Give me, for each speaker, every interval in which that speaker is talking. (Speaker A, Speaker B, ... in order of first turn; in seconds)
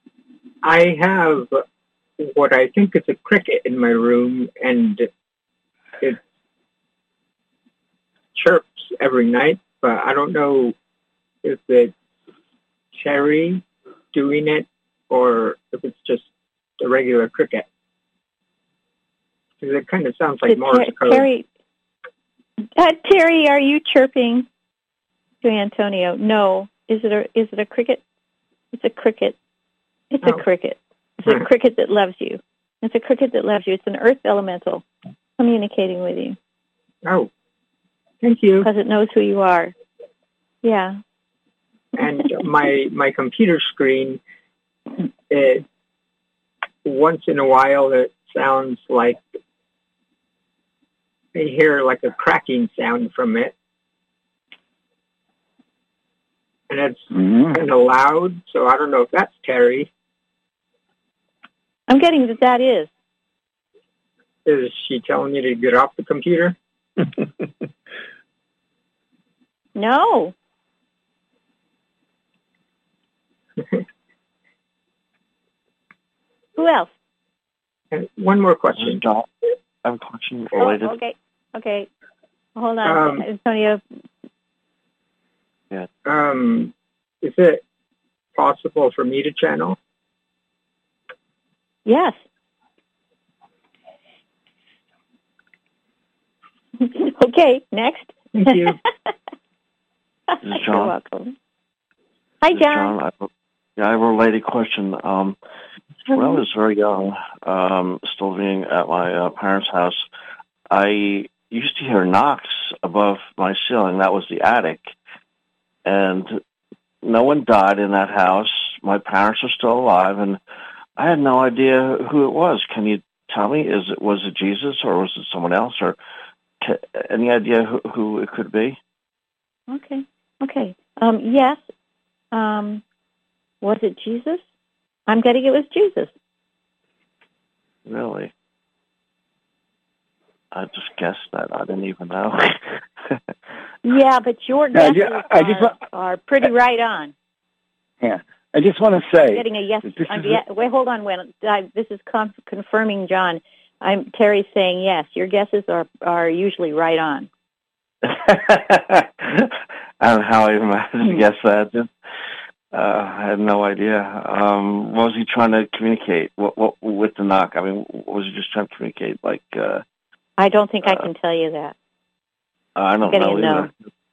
Speaker A: 0.6-1.6, 2.2-5.1, 8.3-10.7, 11.4-11.9, 12.9-16.3, 16.8-17.6, 19.6-21.2, 37.0-37.3, 38.2-38.7, 42.0-44.2, 45.3-45.6, 46.8-49.2, 51.3-53.5, 56.7-59.9, 64.5-66.5, 77.9-79.0, 82.8-83.2, 86.0-87.6, 88.3-89.8, 98.3-98.8
Speaker B: 20.5-21.4, 22.8-24.5, 25.4-28.0, 28.7-29.4, 30.1-34.8, 35.4-36.4, 38.6-39.7, 40.6-41.0, 61.9-62.9, 69.8-70.3, 76.6-76.9, 80.6-81.9, 82.5-83.8, 91.8-92.2, 96.8-98.7, 100.5-101.3, 102.4-102.9, 129.7-131.6, 132.3-132.8, 133.6-134.4, 135.1-136.1, 143.8-147.1, 149.3-157.3, 170.4-171.7, 173.1-173.7
Speaker C: 57.1-57.6, 144.7-145.8, 148.0-150.4
Speaker D: 78.8-81.0, 100.4-101.0, 102.5-105.4, 106.1-110.0, 110.7-114.9, 115.8-116.4, 117.0-120.4, 121.0-126.0, 126.6-128.8, 137.8-138.3, 140.5-142.6, 158.0-161.9, 162.7-169.8, 172.8-173.8